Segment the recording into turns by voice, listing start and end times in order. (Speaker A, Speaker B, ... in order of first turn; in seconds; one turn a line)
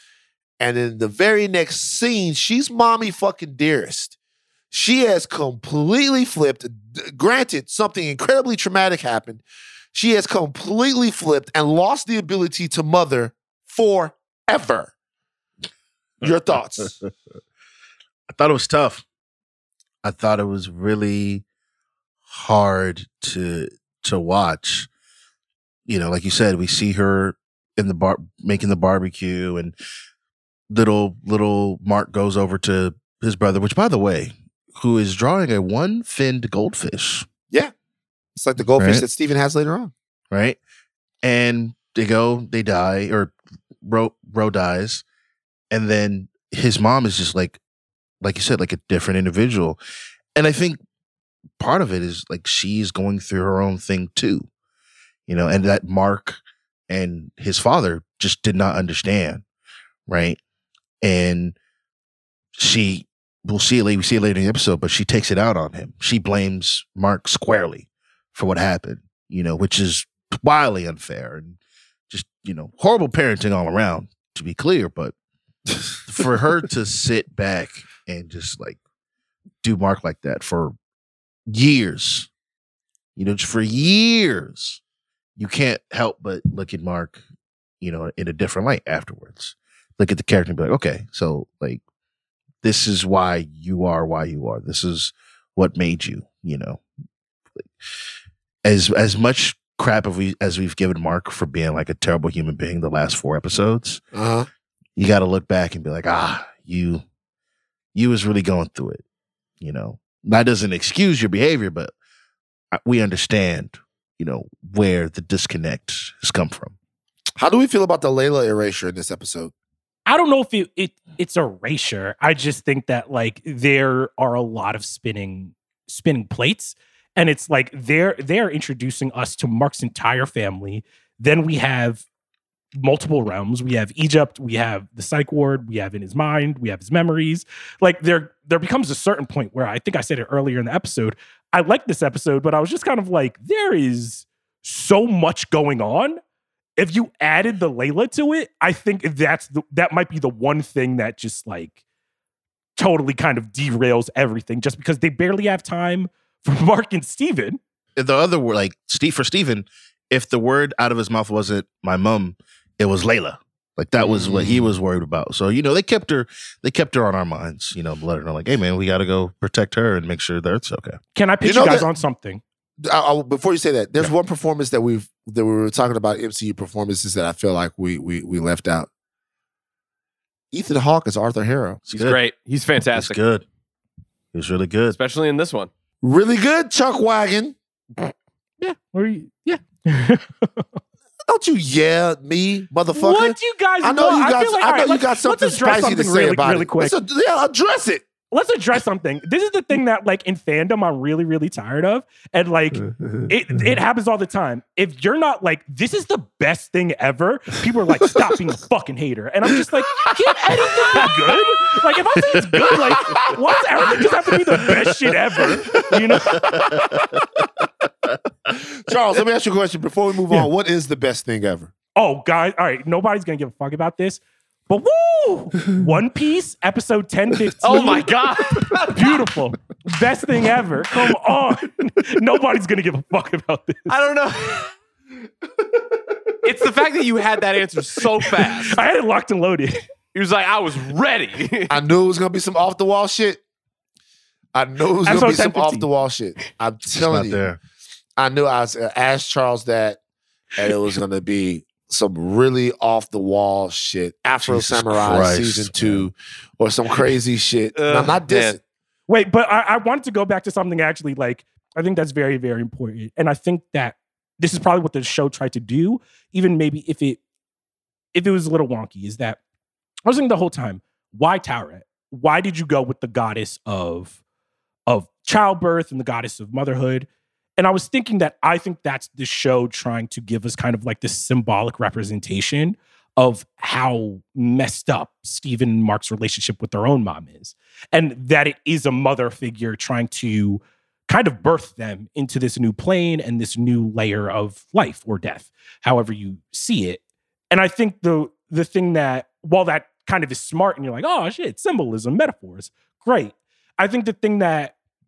Speaker A: 0.6-4.2
Speaker A: 4.7-9.4
Speaker A: 9.9-14.9
Speaker A: 16.2-17.0
Speaker B: 18.3-19.1
Speaker B: 20.0-21.4
Speaker B: 22.3-24.9
Speaker B: 25.9-29.8
Speaker B: 30.7-37.3
Speaker A: 38.4-39.9
Speaker B: 38.8-39.0
Speaker B: 40.3-40.6
Speaker B: 41.2-45.0
Speaker B: 45.7-47.6
Speaker B: 48.2-49.8
Speaker B: 50.4-50.8
Speaker B: 51.6-54.5
Speaker B: 55.3-59.4
Speaker B: 60.1-60.4
Speaker B: 61.0-61.5
Speaker B: 62.6-71.6
Speaker B: 72.1-75.1
Speaker B: 76.1-78.8
Speaker B: 79.6-80.8
Speaker B: 81.5-82.3
Speaker B: 83.2-84.8
Speaker B: 85.4-87.2
Speaker B: 87.8-91.8
Speaker B: 92.6-96.8
Speaker B: 98.7-104.0
Speaker A: 104.1-104.5
Speaker B: 105.0-107.0
Speaker B: 108.0-109.0
Speaker B: 109.6-111.9
Speaker B: 112.7-116.7
Speaker A: 117.4-119.5
Speaker C: 120.1-132.0
Speaker C: 132.8-146.2
Speaker C: 146.8-151.8
Speaker C: 152.8-157.6
Speaker B: 158.0-171.0
Speaker A: 164.0-164.7
Speaker C: 171.2-172.4
Speaker A: 171.4-171.9
Speaker A: 172.8-178.9
Speaker A: 180.5-181.8
Speaker D: 181.9-183.2
Speaker B: 181.9-182.2
Speaker B: 182.9-183.4
Speaker B: 184.3-185.0
Speaker D: 184.9-185.7
Speaker A: 186.0-187.6
Speaker C: 188.6-190.8
Speaker A: 191.3-198.1
Speaker C: 192.9-196.9
Speaker C: 198.3-217.2
Speaker A: 210.6-211.1
Speaker A: 212.7-214.8
Speaker A: 215.4-216.4
Speaker B: 216.4-216.8
Speaker A: 218.5-221.7
Speaker C: 222.0-228.1
Speaker D: 227.6-229.2
Speaker C: 228.9-233.9
Speaker D: 233.9-234.7
Speaker D: 236.4-238.8
Speaker C: 238.5-239.8
Speaker D: 240.1-241.8
Speaker A: 241.7-243.4
Speaker A: 244.5-247.5
Speaker C: 245.1-245.9
Speaker B: 247.0-247.6
Speaker A: 248.2-250.0
Speaker A: 250.6-258.6
Speaker B: 254.4-256.1
Speaker D: 257.8-258.6
Speaker C: 259.1-267.2
Speaker C: 268.1-269.4
Speaker C: 270.1-274.2
Speaker C: 274.9-304.7